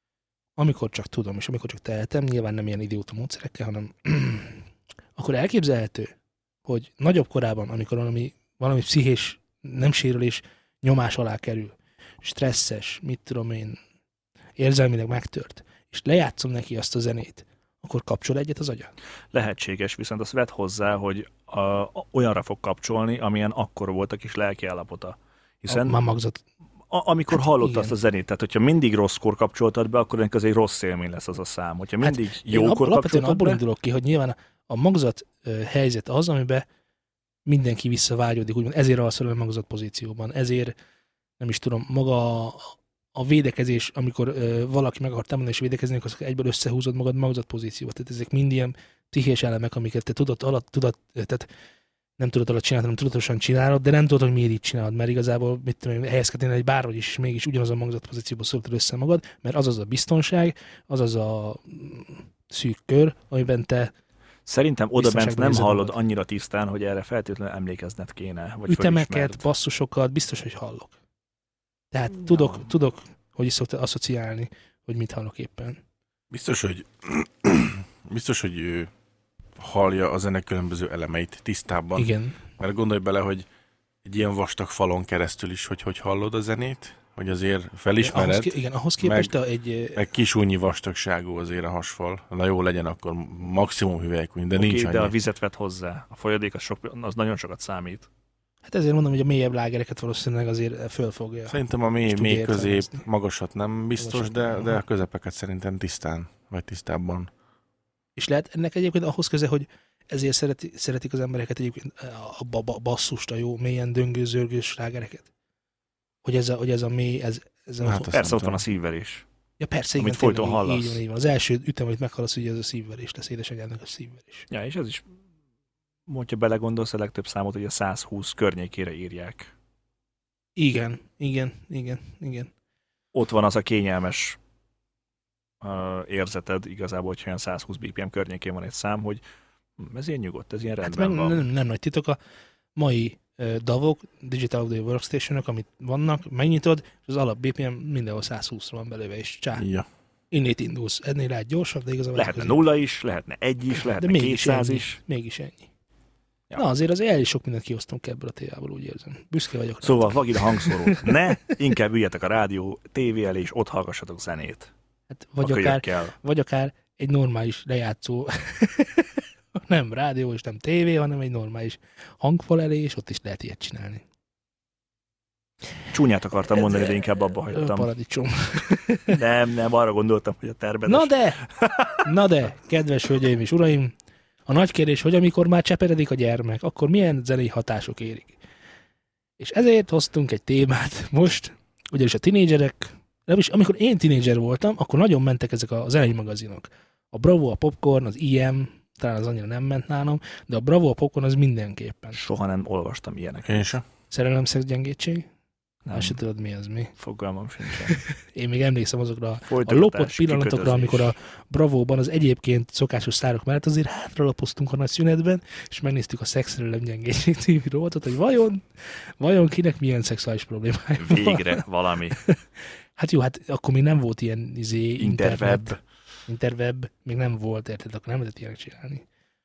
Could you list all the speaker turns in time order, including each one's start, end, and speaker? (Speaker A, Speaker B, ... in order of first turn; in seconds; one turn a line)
Speaker A: 0.6-4.6
Speaker A: 5.2-6.1
Speaker A: 6.7-13.8
Speaker A: 14.6-18.9
Speaker B: 19.3-26.0
Speaker A: 25.7-26.4
Speaker B: 26.9-33.6
Speaker A: 27.3-27.9
Speaker A: 32.0-36.6
Speaker A: 37.5-40.7
Speaker A: 41.4-51.5
Speaker A: 52.2-63.9
Speaker B: 64.5-69.4
Speaker A: 65.0-65.9
Speaker A: 68.7-70.9
Speaker A: 71.9-75.8
Speaker C: 76.3-78.9
Speaker C: 79.6-83.5
Speaker A: 82.0-82.4
Speaker C: 84.0-89.3
Speaker A: 88.0-90.0
Speaker C: 89.9-95.1
Speaker B: 94.5-98.1
Speaker A: 98.6-103.0
Speaker C: 101.5-107.3
Speaker A: 104.0-104.8
Speaker A: 108.2-115.3
Speaker A: 116.2-118.1
Speaker C: 117.8-118.6
Speaker B: 118.1-119.2
Speaker A: 119.6-124.5
Speaker B: 120.0-121.0
Speaker B: 124.5-125.0
Speaker B: 126.1-129.5
Speaker A: 130.6-132.5
Speaker B: 133.1-134.4
Speaker B: 135.6-139.2
Speaker B: 139.8-141.4
Speaker A: 140.8-142.2
Speaker A: 142.8-149.6
Speaker C: 149.6-149.9
Speaker A: 150.3-152.6
Speaker B: 152.1-155.0
Speaker A: 154.0-155.7
Speaker A: 156.6-161.5
Speaker B: 159.8-164.7
Speaker A: 165.1-174.0
Speaker B: 165.4-166.1
Speaker B: 175.9-177.9
Speaker A: 176.5-176.9
Speaker A: 177.5-179.2
Speaker B: 179.1-182.0
Speaker A: 180.9-181.4
Speaker A: 182.0-183.9
Speaker A: 184.5-188.4
Speaker A: 189.4-202.2
Speaker B: 202.1-203.6
Speaker C: 203.4-203.8
Speaker A: 204.1-205.3
Speaker B: 205.8-206.2
Speaker A: 205.9-206.9
Speaker B: 207.0-208.0
Speaker A: 207.9-222.4
Speaker B: 209.5-211.1
Speaker B: 221.0-222.2
Speaker A: 222.9-229.0
Speaker B: 225.0-225.8